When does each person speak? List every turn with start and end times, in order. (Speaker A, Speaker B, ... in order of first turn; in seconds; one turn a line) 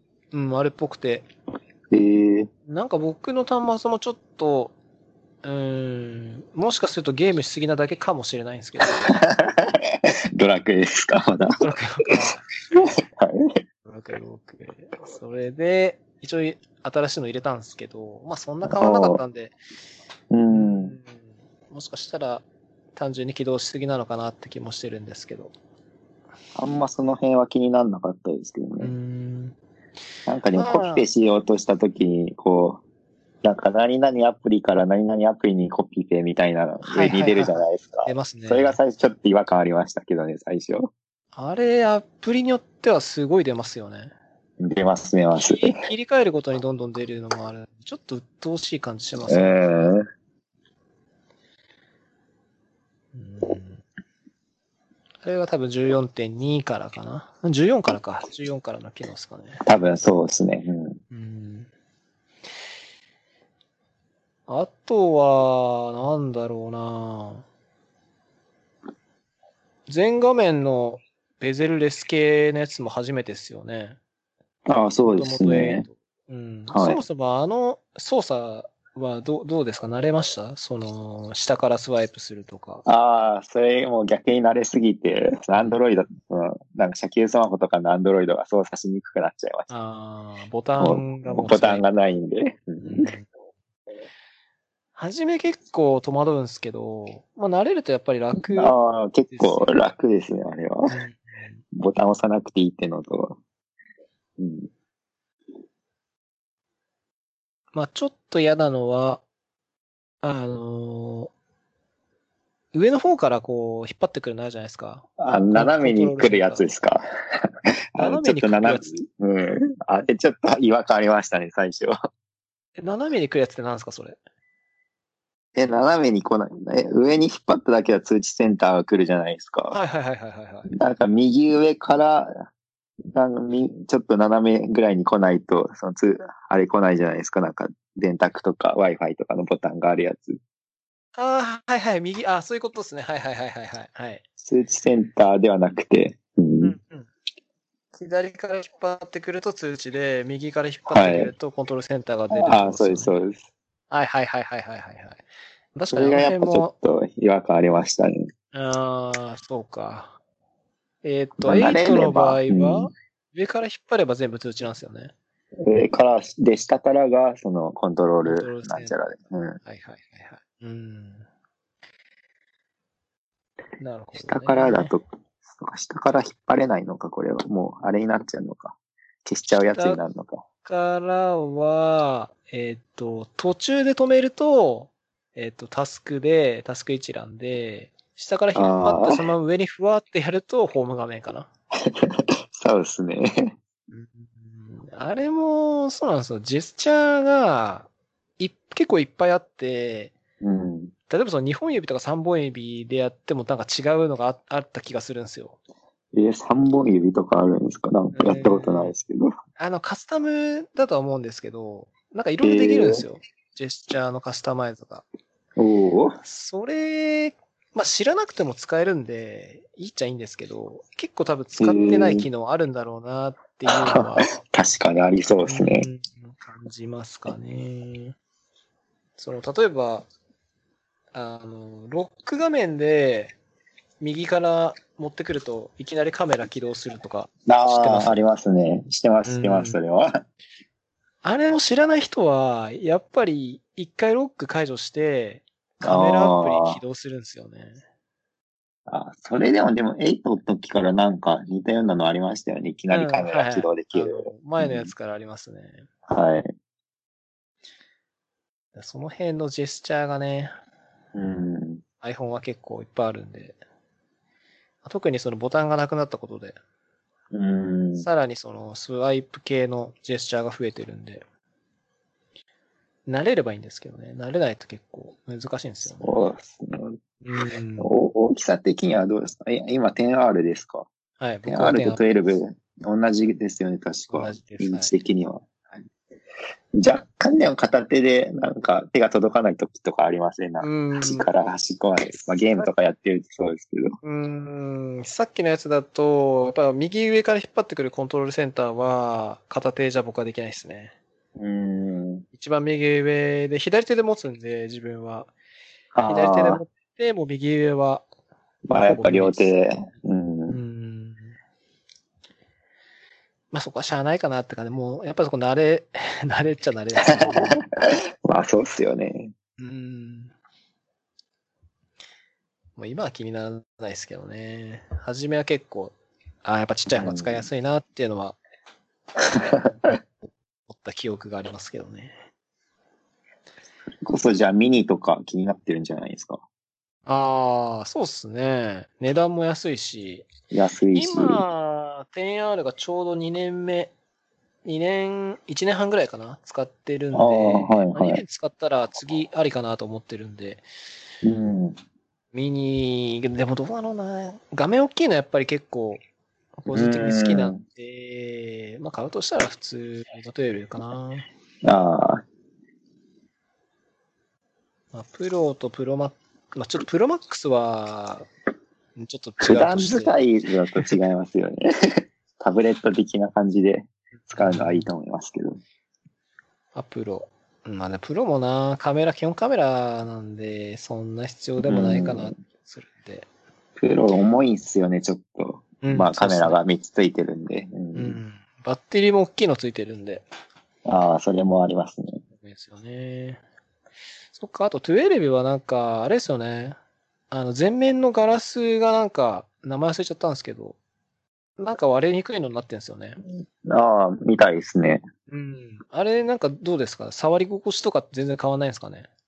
Speaker A: 0.3-1.3
Speaker B: 1.9-2.5
Speaker A: 2.7-4.7
Speaker A: 5.4-9.1
Speaker B: 8.9-11.6
Speaker A: 11.6-12.9
Speaker B: 12.8-13.4
Speaker A: 13.9-19.6
Speaker B: 18.6-19.2
Speaker B: 20.3-21.0
Speaker A: 20.5-25.5
Speaker B: 26.6-28.9
Speaker A: 28.8-29.6
Speaker B: 30.3-32.8
Speaker A: 30.6-31.1
Speaker B: 33.4-40.9
Speaker A: 36.8-38.8
Speaker A: 41.3-44.1
Speaker B: 44.6-45.8
Speaker A: 45.4-49.6
Speaker B: 49.3-50.0
Speaker A: 53.1-53.8
Speaker A: 55.2-59.6
Speaker B: 59.6-61.0
Speaker A: 61.1-61.7
Speaker A: 64.5-67.5
Speaker A: 69.9-74.0
Speaker B: 74.7-75.9
Speaker A: 75.1-82.8
Speaker B: 76.7-77.0
Speaker B: 82.9-89.7
Speaker A: 85.5-85.8
Speaker A: 89.7-91.8
Speaker B: 90.8-93.1
Speaker A: 92.8-93.3
Speaker A: 95.0-98.8
Speaker B: 98.4-101.0
Speaker A: 99.3-99.8
Speaker A: 100.9-101.6
Speaker B: 101.7-103.4
Speaker B: 104.4-104.7
Speaker A: 107.7-109.2
Speaker A: 110.2-111.3
Speaker A: 112.7-116.7
Speaker B: 115.2-117.0
Speaker B: 118.0-121.9
Speaker A: 118.0-118.9
Speaker A: 122.8-124.2
Speaker B: 125.5-129.8
Speaker A: 129.7-130.7
Speaker B: 130.7-132.3
Speaker B: 133.1-140.4
Speaker A: 141.2-144.2
Speaker B: 144.4-146.8
Speaker A: 146.6-147.1
Speaker A: 147.9-153.1
Speaker B: 150.9-151.3
Speaker B: 152.3-153.4
Speaker A: 153.9-155.2
Speaker A: 155.7-156.7
Speaker B: 155.9-158.3
Speaker A: 158.5-160.2
Speaker A: 161.0-165.1
Speaker B: 161.4-162.9
Speaker B: 165.6-169.6
Speaker A: 168.2-169.0
Speaker A: 169.6-171.3
Speaker A: 173.8-174.9
Speaker B: 174.2-180.4
Speaker A: 179.7-180.0
Speaker A: 180.7-191.5
Speaker B: 188.6-189.2
Speaker B: 191.9-193.5
Speaker A: 193.9-200.1
Speaker B: 200.4-200.9
Speaker A: 201.1-205.6
Speaker B: 206.1-209.3
Speaker A: 208.1-208.9
Speaker A: 209.6-215.0
Speaker B: 212.4-213.0
Speaker B: 215.6-216.2
Speaker A: 216.2-224.4
Speaker B: 221.6-222.3
Speaker B: 223.7-225.9
Speaker A: 225.4-228.2
Speaker A: 229.2-230.1
Speaker A: 231.1-233.4
Speaker A: 234.0-238.2
Speaker B: 237.5-240.1
Speaker A: 239.2-239.8
Speaker A: 241.2-247.8
Speaker B: 245.8-246.8
Speaker B: 248.9-254.9
Speaker A: 252.9-255.9
Speaker B: 256.1-256.5
Speaker A: 258.8-260.5
Speaker B: 261.1-261.8
Speaker A: 262.0-263.6
Speaker A: 264.8-266.6
Speaker B: 267.3-268.1
Speaker A: 268.0-271.2
Speaker A: 273.1-276.2
Speaker B: 276.0-277.0
Speaker A: 277.2-277.9
Speaker B: 277.8-280.9
Speaker A: 281.2-282.0
Speaker B: 281.5-285.5
Speaker A: 284.1-284.9
Speaker B: 286.8-294.0
Speaker A: 290.6-291.3
Speaker A: 294.0-300.9
Speaker B: 301.4-302.2
Speaker A: 302.3-305.3
Speaker B: 305.9-306.6
Speaker A: 306.1-308.1
Speaker B: 308.7-310.6
Speaker A: 308.8-309.5
Speaker A: 310.5-311.3
Speaker A: 313.5-317.6
Speaker B: 317.0-317.6
Speaker B: 318.2-319.3
Speaker A: 319.6-320.3
Speaker A: 322.8-328.4
Speaker B: 326.9-327.5
Speaker B: 329.3-329.9
Speaker A: 330.7-332.1
Speaker B: 334.0-336.4
Speaker A: 337.1-340.3
Speaker B: 340.5-341.4
Speaker A: 340.9-343.9
Speaker A: 344.6-350.6
Speaker B: 347.1-348.2
Speaker B: 351.2-351.8
Speaker A: 352.3-356.0
Speaker A: 356.6-361.3
Speaker B: 356.7-357.6
Speaker B: 361.6-362.2
Speaker A: 364.9-368.3
Speaker A: 369.0-370.2
Speaker B: 369.4-371.7
Speaker B: 372.4-375.6
Speaker A: 374.3-374.9
Speaker A: 376.8-383.3
Speaker B: 381.6-382.3
Speaker B: 383.8-388.2
Speaker A: 385.8-386.6
Speaker A: 387.9-390.3
Speaker B: 390.9-392.2
Speaker A: 392.4-393.4
Speaker A: 394.3-396.8
Speaker A: 397.3-400.8
Speaker A: 401.6-403.2
Speaker B: 403.6-405.0
Speaker A: 405.3-409.1